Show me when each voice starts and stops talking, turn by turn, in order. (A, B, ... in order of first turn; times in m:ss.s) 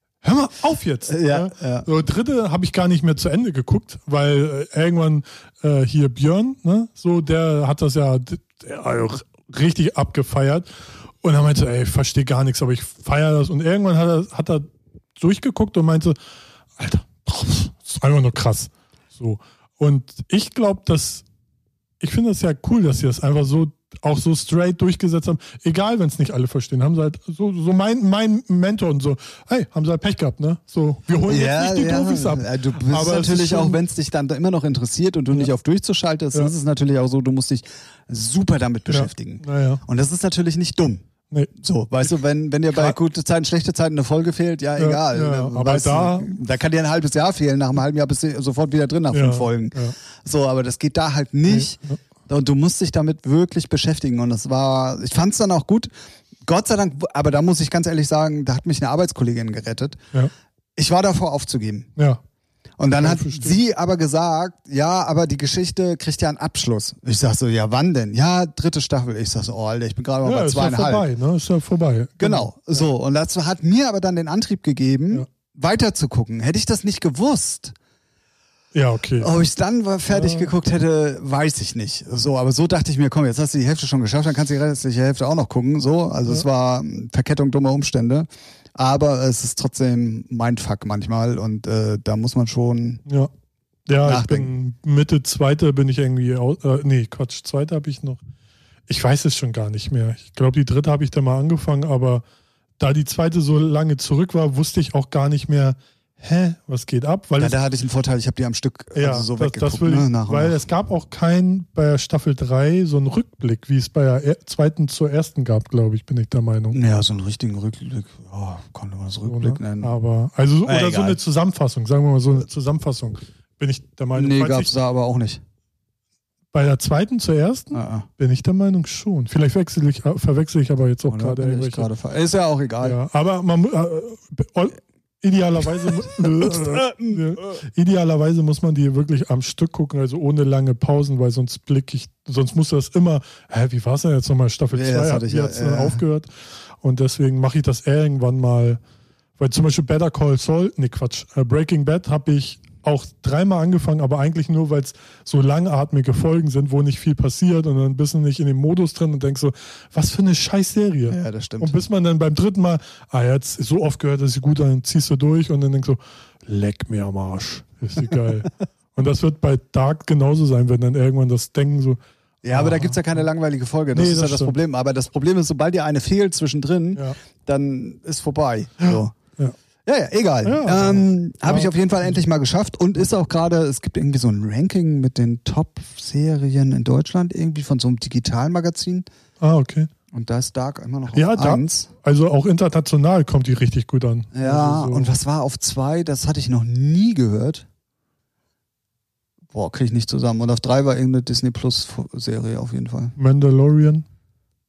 0:00.2-0:10.7 A
0:01.1-0:01.9 B
0:11.2-0:16.2 A
0:16.8-0:21.2 A
0:22.0-0:33.8 A
0:31.3-0:41.0 B
0:38.9-0:39.8 A
0:41.6-0:55.9 B
0:42.7-0:43.0 A
0:44.8-0:46.4 A
0:49.1-0:50.0 A
0:51.5-0:52.0 A
0:56.4-1:00.0 B
1:00.8-1:01.9 B
1:02.0-1:02.2 A
1:02.8-1:11.1 B
1:03.0-1:03.6 A
1:10.2-1:12.8 A
1:12.2-1:17.8 B
1:18.7-1:19.3 A
1:19.2-1:33.0 B
1:20.1-1:20.5 A
1:33.1-1:33.3 A
1:33.9-1:38.2 A
1:34.0-1:34.5 B
1:38.9-1:42.2 A
1:42.8-1:47.6 A
1:47.4-1:50.6 B
1:49.0-1:56.8 A
1:56.7-1:59.9 B
1:59.3-2:04.7 A
2:00.6-2:01.2 B
2:04.1-2:05.4 B
2:06.5-2:11.9 A
2:07.7-2:08.1 B
2:11.1-2:13.0 B
2:12.8-2:28.8 A
2:16.0-2:17.6 B
2:24.7-2:26.0 B
2:29.4-2:53.2 A
2:41.1-2:41.8 B
2:52.4-2:59.2 B
2:53.9-2:54.6 A
2:58.9-2:59.5 A
2:59.9-3:09.0 B
3:00.4-3:02.1 A
3:09.4-3:09.9 A
3:10.1-3:11.9 B
3:11.1-3:15.1 A
3:14.3-3:17.7 B
3:19.5-3:23.1 B
3:23.2-3:24.0 A